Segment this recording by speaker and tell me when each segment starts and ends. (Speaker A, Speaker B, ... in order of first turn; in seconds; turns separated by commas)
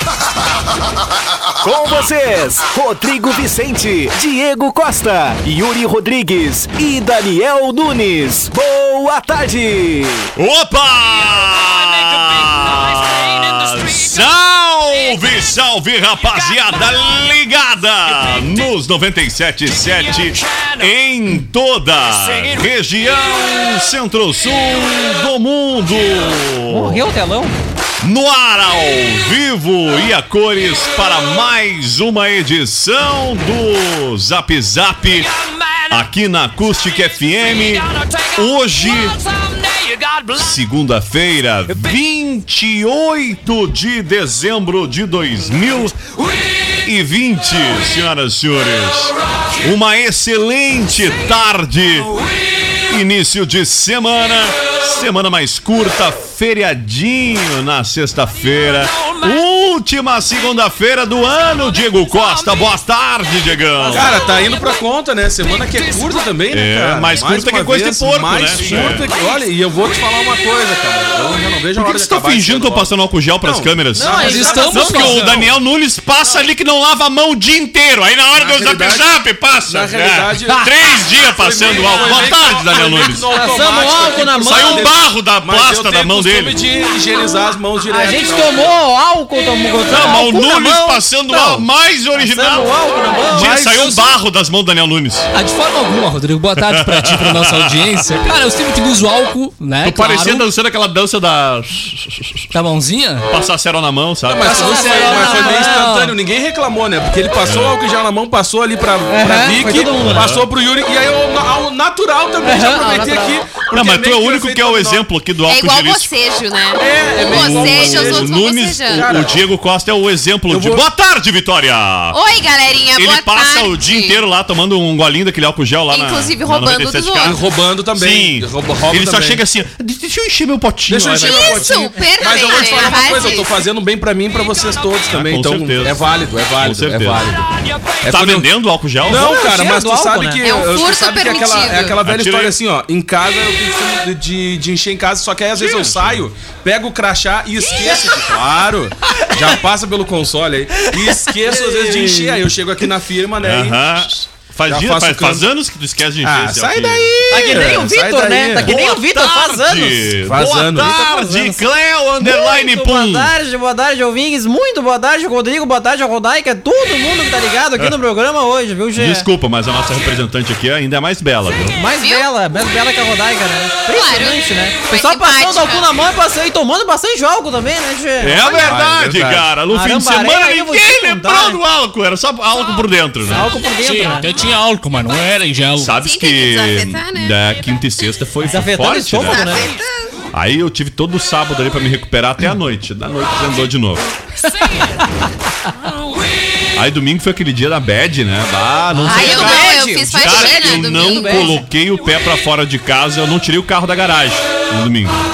Speaker A: 1.6-10.3, Speaker B: 10.3-27.1, Speaker C: 26.7-27.5, Speaker B: 28.0-39.2, Speaker D: 39.7-40.2, Speaker B: 40.3-46.0, Speaker B: 46.8-52.1, Speaker B: 52.9-64.1, Speaker C: 63.8-64.1, Speaker E: 63.9-75.3, Speaker B: 66.5-69.1, Speaker B: 71.8-83.3, Speaker C: 73.9-75.4, Speaker D: 74.1-75.5, Speaker E: 78.3-79.1, Speaker E: 79.6-80.7, Speaker E: 81.2-88.8, Speaker C: 83.3-84.9, Speaker B: 84.4-86.6, Speaker C: 87.9-93.6, Speaker B: 89.9-92.7, Speaker D: 93.3-94.1, Speaker B: 93.3-95.3, Speaker D: 95.3-100.5, Speaker B: 96.5-98.2, Speaker B: 99.8-102.5, Speaker D: 102.5-103.3, Speaker B: 103.3-105.0, Speaker E: 104.2-115.0, Speaker C: 104.4-105.9, Speaker D: 105.0-106.2, Speaker B: 107.4-107.8, Speaker C: 109.1-110.3, Speaker B: 110.0-110.5, Speaker C: 112.4-113.5, Speaker B: 113.7-116.1, Speaker F: 115.5-119.0, Speaker E: 116.8-118.4, Speaker B: 117.2-122.2, Speaker E: 118.9-119.4, Speaker E: 120.5-120.8, Speaker F: 122.1-124.2, Speaker B: 123.0-131.6, Speaker F: 125.9-127.4, Speaker E: 127.2-129.4, Speaker E: 130.9-137.5, Speaker F: 131.1-133.5, Speaker B: 135.1-137.3, Speaker E: 138.0-138.5, Speaker B: 138.1-139.4, Speaker E: 139.0-155.5, Speaker C: 139.1-140.6, Speaker F: 140.4-142.0, Speaker B: 142.0-142.6, Speaker B: 145.5-146.3, Speaker B: 153.4-157.8, Speaker E: 156.2-158.8, Speaker C: 157.3-160.2, Speaker B: 158.6-163.3, Speaker E: 160.2-160.9, Speaker C: 160.7-161.6, Speaker C: 162.2-169.3, Speaker B: 168.9-171.8, Speaker C: 171.7-178.5, Speaker F: 172.0-172.2, Speaker F: 173.9-175.9, Speaker B: 178.2-183.5, Speaker E: 178.6-179.5, Speaker C: 179.7-181.6, Speaker C: 183.3-184.3, Speaker D: 183.8-185.9, Speaker B: 185.7-189.7, Speaker F: 186.0-187.3, Speaker C: 188.4-189.7, Speaker F: 189.2-189.8, Speaker B: 190.3-194.1, Speaker B: 196.8-205.2, Speaker C: 198.9-201.6, Speaker F: 199.1-201.6